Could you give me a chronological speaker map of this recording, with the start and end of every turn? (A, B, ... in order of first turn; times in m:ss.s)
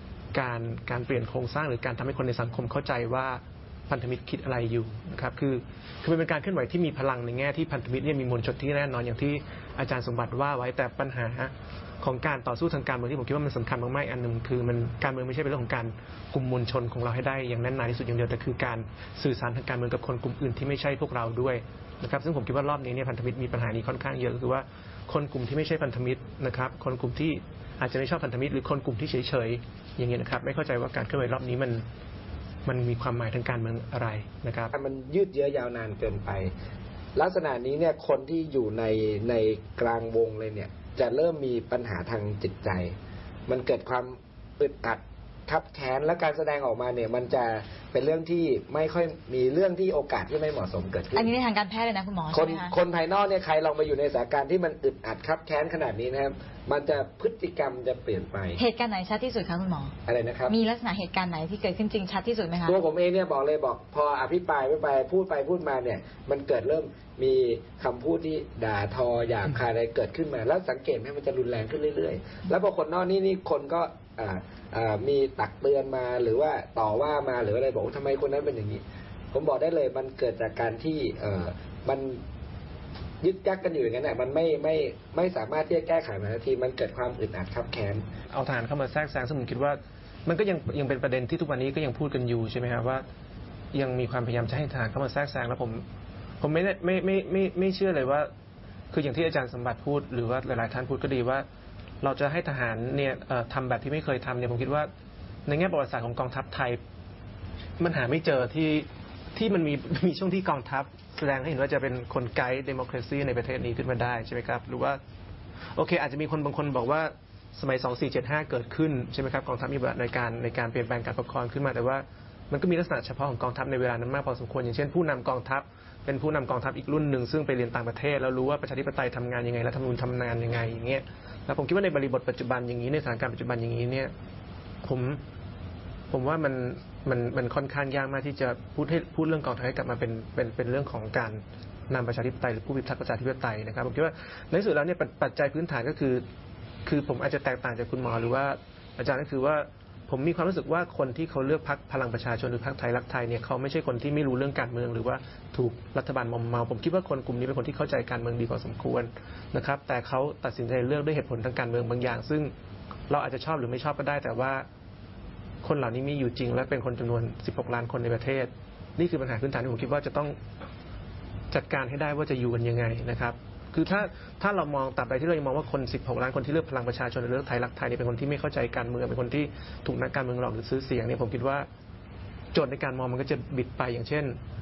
0:00.3-0:31.8 A
0:32.6-0:34.7 A
0:34.7-0:36.5 B
0:37.2-0:42.9 B
0:43.5-0:51.3 B
0:51.1-0:52.7 C
0:52.3-0:58.6 B
0:58.6-0:59.9 C
1:00.0-1:00.6 B
1:00.5-1:02.8 C
1:02.6-1:22.2 B
1:23.2-1:28.0 B
1:28.3-1:33.0 A
1:33.7-1:35.8 A
1:36.4-1:38.3 A
1:38.9-1:41.4 A
1:42.0-1:44.9 A
1:45.5-1:46.8 A
1:47.8-1:55.0 A
1:55.7-2:14.1 A
2:14.8-2:15.2 A
2:16.1-2:26.2 A
2:26.8-2:42.5 A
2:43.1-2:44.6 A
2:45.6-2:50.4 A
2:51.5-3:01.7 A
3:02.5-3:04.4 A